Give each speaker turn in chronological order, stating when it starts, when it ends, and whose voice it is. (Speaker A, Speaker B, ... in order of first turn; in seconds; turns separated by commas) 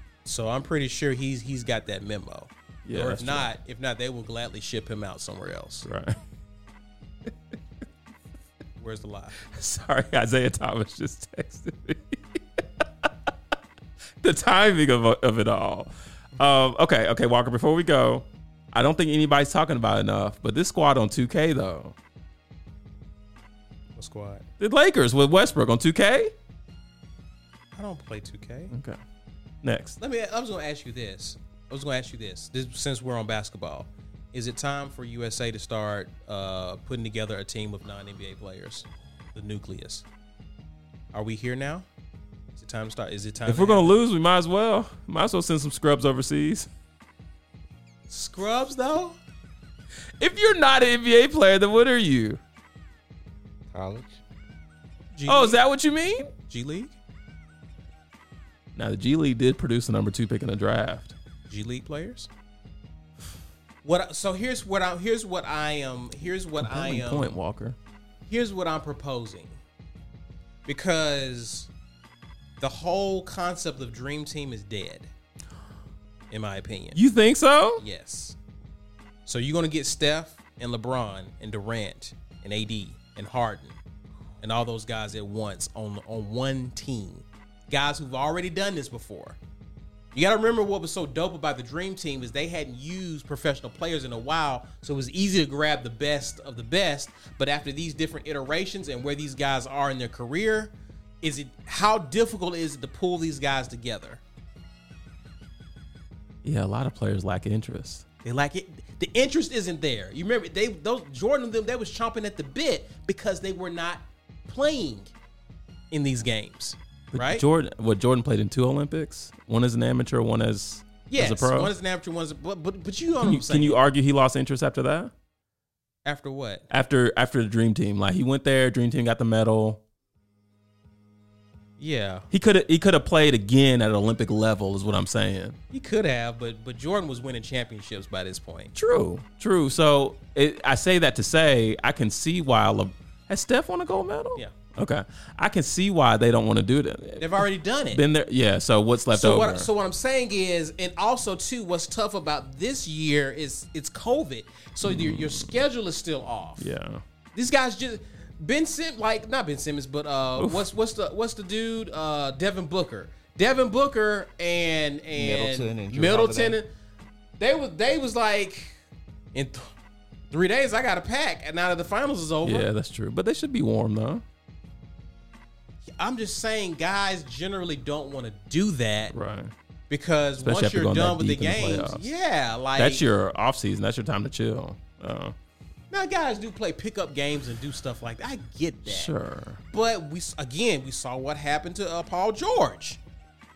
Speaker A: 0.2-5.9, Speaker B: 2.9-3.5, Speaker B: 5.8-6.2, Speaker A: 8.8-9.4, Speaker B: 9.4-13.1, Speaker B: 14.2-21.9, Speaker A: 23.9-24.4, Speaker B: 24.6-26.3, Speaker A: 27.7-28.7, Speaker B: 28.7-29.0, Speaker B: 29.6-30.0, Speaker A: 30.0-40.0, Speaker A: 41.1-41.8, Speaker A: 42.5-43.9, Speaker B: 43.5-46.7, Speaker A: 48.1-49.2, Speaker B: 50.2-52.4, Speaker C: 53.7-54.2, Speaker A: 55.1-55.6, Speaker B: 55.3-56.3, Speaker A: 56.3-57.0, Speaker B: 58.7-61.1, Speaker A: 61.5-62.3, Speaker A: 63.8-67.3, Speaker B: 66.6-67.8, Speaker A: 68.3-69.6, Speaker A: 70.7-71.7, Speaker A: 72.6-75.1, Speaker A: 76.3-77.0, Speaker B: 76.9-77.8, Speaker A: 77.8-78.4, Speaker A: 79.3-83.8, Speaker A: 84.4-89.4, Speaker A: 90.1-104.2, Speaker B: 106.4-108.0, Speaker A: 108.2-115.1, Speaker A: 115.9-117.4, Speaker B: 117.1-121.7, Speaker A: 121.1-123.8, Speaker B: 123.2-125.1, Speaker A: 126.0-126.7, Speaker B: 126.7-129.8, Speaker A: 131.8-132.3, Speaker B: 132.3-135.6, Speaker A: 135.7-138.7, Speaker B: 138.7-149.7, Speaker A: 147.2-148.0, Speaker A: 149.1-156.7, Speaker B: 154.8-155.6, Speaker B: 156.6-157.0, Speaker A: 157.3-166.7, Speaker B: 160.4-160.6, Speaker C: 165.1-166.6, Speaker A: 167.4-168.7, Speaker A: 169.3-169.7, Speaker A: 170.3-172.7, Speaker B: 172.4-174.2, Speaker A: 176.0-179.1, Speaker B: 179.1-179.5, Speaker A: 179.9-183.0, Speaker B: 180.4-182.1, Speaker B: 182.8-185.3, Speaker A: 185.9-189.1, Speaker B: 188.9-189.6, Speaker A: 189.7-193.0